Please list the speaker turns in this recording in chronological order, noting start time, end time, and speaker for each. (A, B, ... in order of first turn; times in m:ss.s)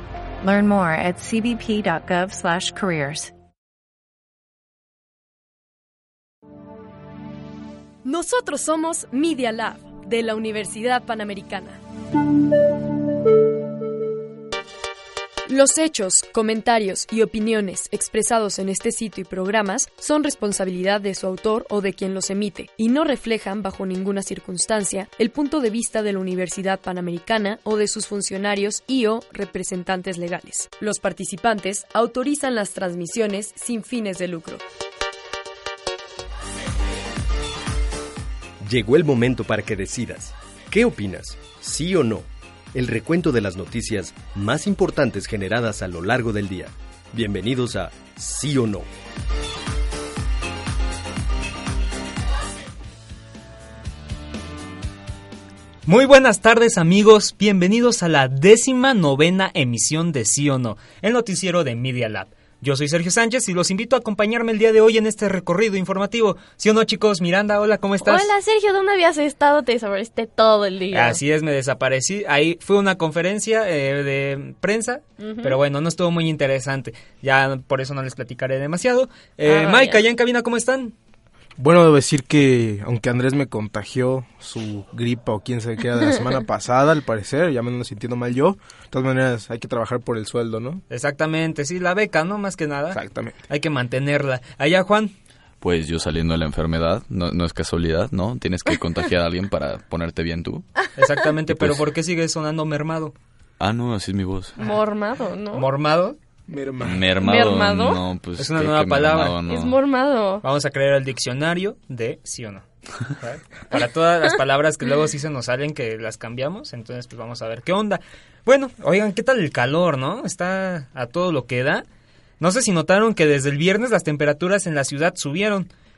0:00.4-0:03.3 A
0:08.0-0:11.8 B
0:15.5-0:34.6 B
0:38.6-0:48.9 C
0:55.9-1:08.3 D
1:08.0-1:11.2 E
1:10.9-1:20.9 D
1:15.2-1:15.6 E
1:19.5-1:20.0 E
1:21.6-1:30.8 F
1:30.9-1:35.1 D
1:32.9-1:33.4 F
1:35.6-1:40.7 G
1:41.0-1:43.1 D
1:41.5-1:41.8 G
1:43.6-1:44.6 G
1:44.6-1:45.7 E
1:45.5-1:46.2 D
1:46.5-1:47.1 F
1:46.8-1:49.8 G
1:47.2-1:48.0 E
1:48.4-1:49.4 D
1:49.5-1:50.4 E
1:50.4-2:01.8 D
2:02.4-2:05.7 D